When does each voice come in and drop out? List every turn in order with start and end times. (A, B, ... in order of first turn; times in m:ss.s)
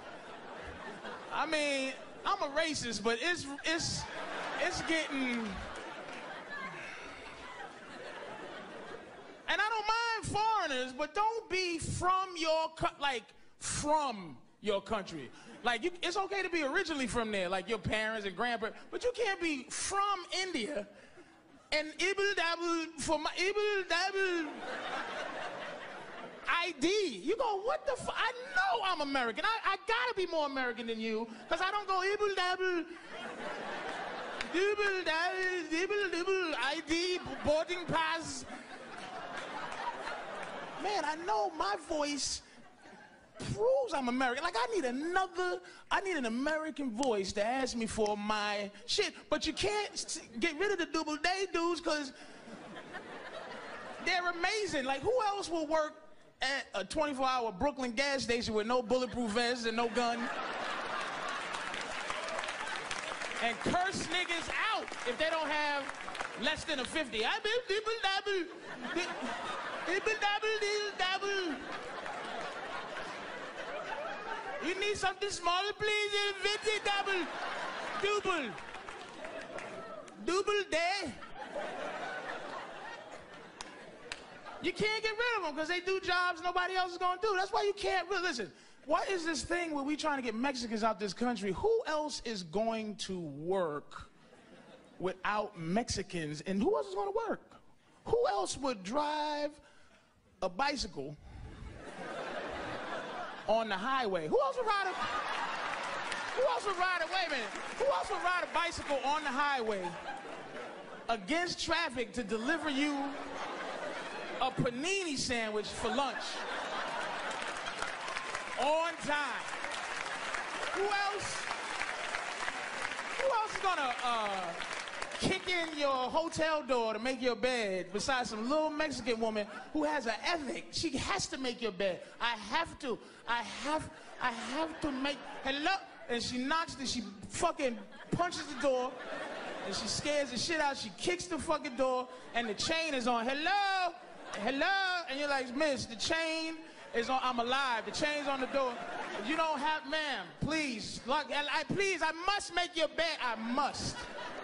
0:01.3-0:05.6 A
0:09.5-0:20.9 A
0:21.7-0:24.6 A
0:26.4-0:32.9 A
0:34.5-0:38.5 A
0:40.8-0:42.4 A
0:43.4-0:52.1 A
0:54.0-1:00.3 A
1:03.4-1:11.6 A
1:14.6-1:17.3 A
1:18.0-1:18.6 A
1:20.2-1:21.2 A
1:24.6-1:34.1 A
1:35.0-1:39.6 A
1:40.4-1:41.2 A
1:43.5-1:45.1 A
1:46.3-1:50.0 A
1:51.1-1:53.2 A
1:54.4-1:56.4 A
1:58.6-1:59.5 A
2:00.7-2:01.5 A
2:03.2-2:04.6 A
2:05.1-2:19.0 A
2:19.6-2:34.1 A